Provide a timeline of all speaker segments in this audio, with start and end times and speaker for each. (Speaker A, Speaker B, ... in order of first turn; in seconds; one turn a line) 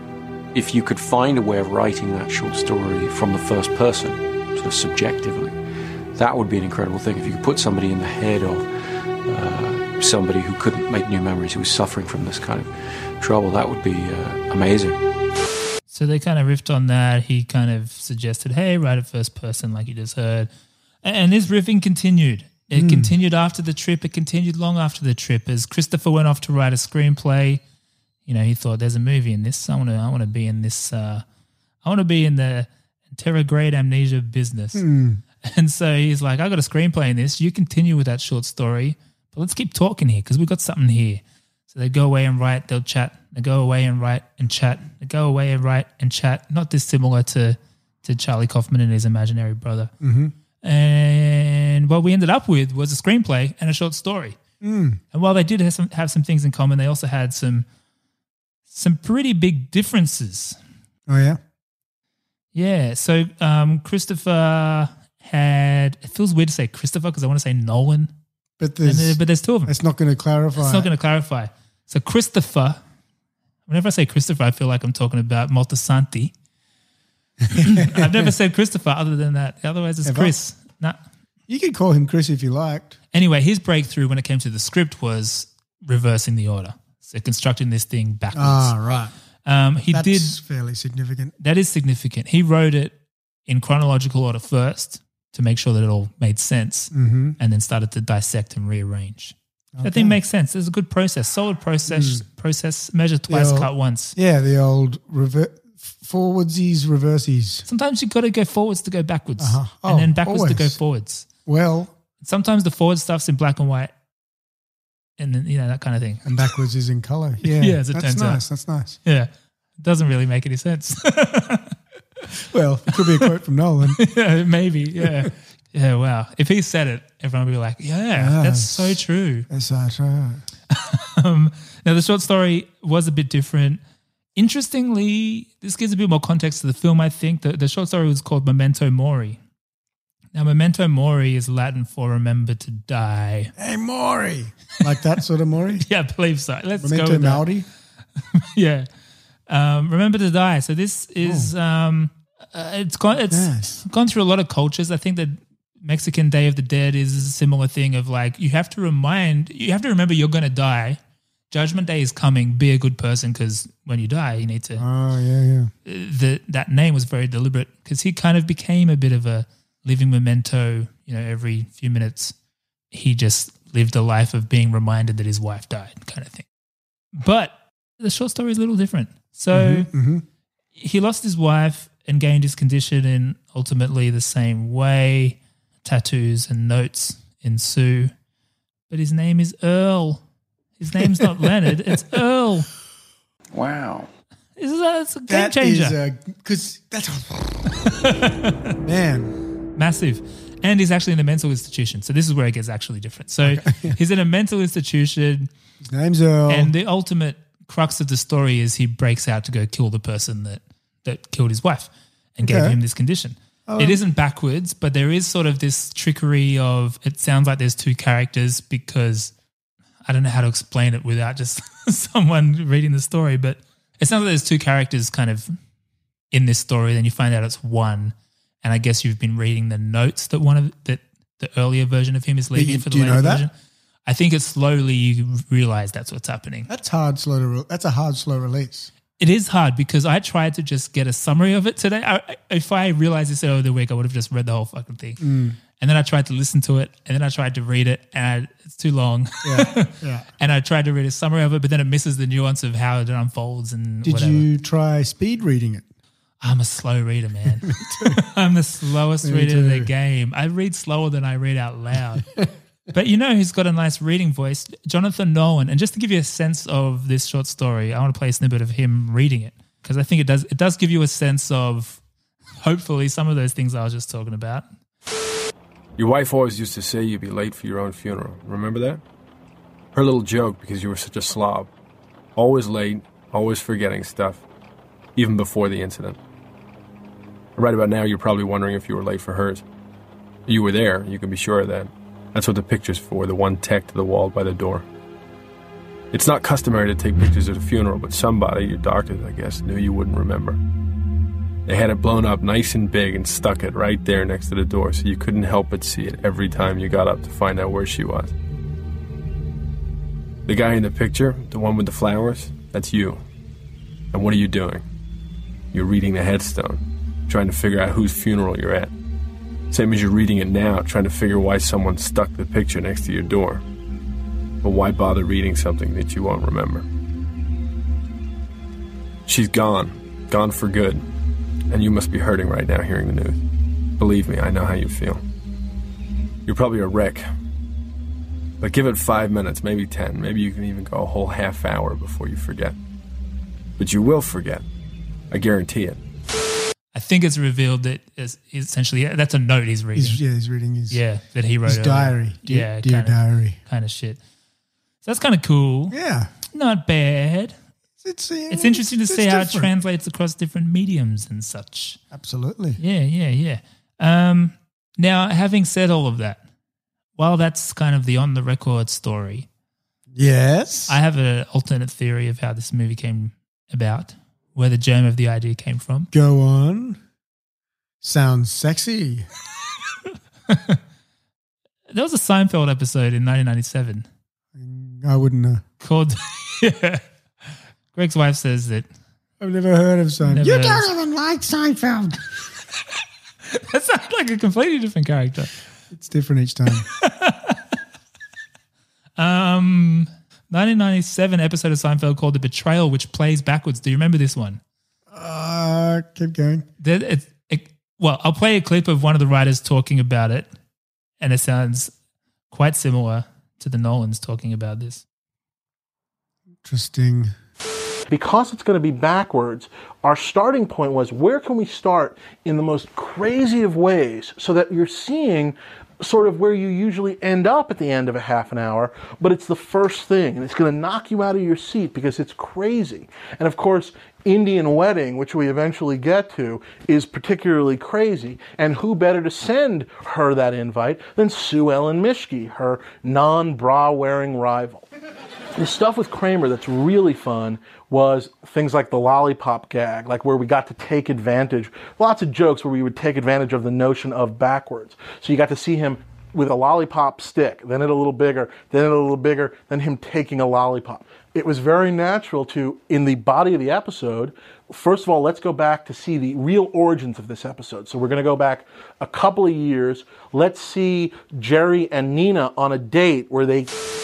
Speaker A: 0.5-5.5
Speaker A: 6.1-8.7
Speaker A: 9.2-15.0
Speaker B: 15.9-20.5
Speaker B: 21.0-27.6
Speaker C: 22.7-23.1
Speaker B: 28.2-31.2
Speaker B: 31.8-34.9
Speaker C: 34.7-35.2
Speaker B: 35.4-49.9
Speaker C: 50.0-50.3
Speaker B: 50.6-54.4
Speaker C: 54.6-55.0
Speaker B: 55.1-57.6
Speaker B: 58.7-60.5
Speaker C: 61.1-61.4
Speaker B: 62.5-68.1
Speaker C: 68.6-70.9
Speaker B: 68.8-69.7
Speaker B: 70.5-72.8
Speaker B: 73.7-76.3
Speaker C: 77.4-78.3
Speaker B: 77.5-81.0
Speaker C: 80.0-80.3
Speaker C: 81.5-83.0
Speaker B: 83.1-88.8
Speaker C: 88.3-89.1
Speaker B: 89.4-90.4
Speaker C: 89.9-91.3
Speaker B: 91.4-92.9
Speaker B: 93.5-104.2
Speaker C: 96.9-97.4
Speaker C: 99.7-100.2
Speaker C: 101.9-102.2
Speaker C: 103.3-107.7
Speaker B: 107.7-111.3
Speaker C: 109.4-110.8
Speaker C: 111.4-111.9
Speaker B: 112.2-113.9
Speaker B: 115.2-116.3
Speaker C: 116.2-119.0
Speaker B: 117.4-118.4
Speaker B: 119.0-121.7
Speaker C: 122.3-124.0
Speaker B: 123.0-123.3
Speaker B: 124.0-129.5
Speaker C: 125.0-125.3
Speaker C: 128.2-130.4
Speaker B: 130.7-133.8
Speaker B: 134.3-139.4
Speaker B: 140.3-143.5
Speaker C: 143.6-145.8
Speaker B: 145.8-147.4
Speaker C: 146.8-147.7
Speaker B: 148.3-148.9
Speaker B: 149.5-161.0
Speaker C: 151.2-151.5
Speaker C: 153.3-153.8
Speaker B: 161.5-164.8
Speaker C: 164.8-165.7
Speaker B: 165.8-172.3
Speaker B: 172.9-176.4
Speaker B: 177.1-179.9
Speaker C: 179.5-180.2
Speaker B: 180.8-188.1
Speaker B: 188.9-190.2
Speaker B: 190.8-192.7
Speaker C: 191.0-191.7
Speaker B: 194.6-196.0
Speaker C: 195.3-197.8
Speaker B: 197.8-198.7
Speaker C: 198.8-199.3
Speaker B: 199.8-205.5
Speaker C: 203.4-204.0
Speaker C: 205.8-206.7
Speaker B: 206.5-219.3
Speaker C: 212.4-212.8
Speaker C: 213.7-214.0
Speaker B: 220.0-225.5
Speaker B: 226.3-233.5
Speaker C: 232.5-233.4
Speaker B: 234.1-236.7
Speaker C: 236.7-238.9
Speaker B: 239.2-245.2
Speaker C: 245.2-245.6
Speaker B: 245.8-254.5
Speaker C: 249.4-250.3
Speaker C: 254.0-255.9
Speaker B: 256.4-262.4
Speaker C: 257.6-258.2
Speaker C: 259.2-259.9
Speaker B: 262.9-272.0
Speaker B: 272.6-274.6
Speaker D: 276.0-279.0
Speaker D: 279.9-281.7
Speaker D: 282.4-284.4
Speaker D: 285.1-286.2
Speaker D: 287.6-289.6
Speaker D: 290.5-294.8
Speaker D: 296.1-300.6
Speaker D: 301.7-308.3
Speaker D: 310.5-313.2
Speaker D: 314.1-314.8
Speaker D: 315.7-318.9
Speaker D: 319.7-323.6
Speaker D: 324.6-326.9
Speaker D: 329.2-331.0
Speaker D: 331.7-333.4
Speaker D: 334.0-335.2
Speaker D: 336.4-337.2
Speaker D: 338.6-342.8
Speaker D: 343.8-344.6
Speaker D: 345.3-346.0
Speaker B: 346.9-350.2
Speaker C: 349.9-351.0
Speaker B: 350.9-354.2
Speaker C: 351.6-353.6
Speaker B: 355.0-355.9
Speaker C: 355.9-356.3
Speaker B: 356.5-357.5
Speaker C: 358.0-359.7
Speaker B: 358.5-362.0
Speaker C: 362.1-362.8
Speaker B: 362.8-366.4
Speaker B: 367.2-369.5
Speaker C: 370.1-370.9
Speaker B: 370.9-376.1
Speaker C: 376.1-377.0
Speaker C: 378.0-379.3
Speaker B: 380.5-380.8
Speaker B: 381.9-384.1
Speaker C: 384.5-385.6
Speaker B: 385.8-387.0
Speaker B: 387.9-388.9
Speaker C: 389.4-392.4
Speaker B: 390.2-390.9
Speaker B: 393.5-395.5
Speaker C: 395.9-396.9
Speaker B: 397.0-397.6
Speaker B: 399.2-404.6
Speaker C: 405.1-406.6
Speaker B: 406.8-410.5
Speaker B: 411.2-411.9
Speaker B: 412.5-415.0
Speaker C: 416.6-417.3
Speaker E: 418.1-444.9
Speaker E: 445.6-473.7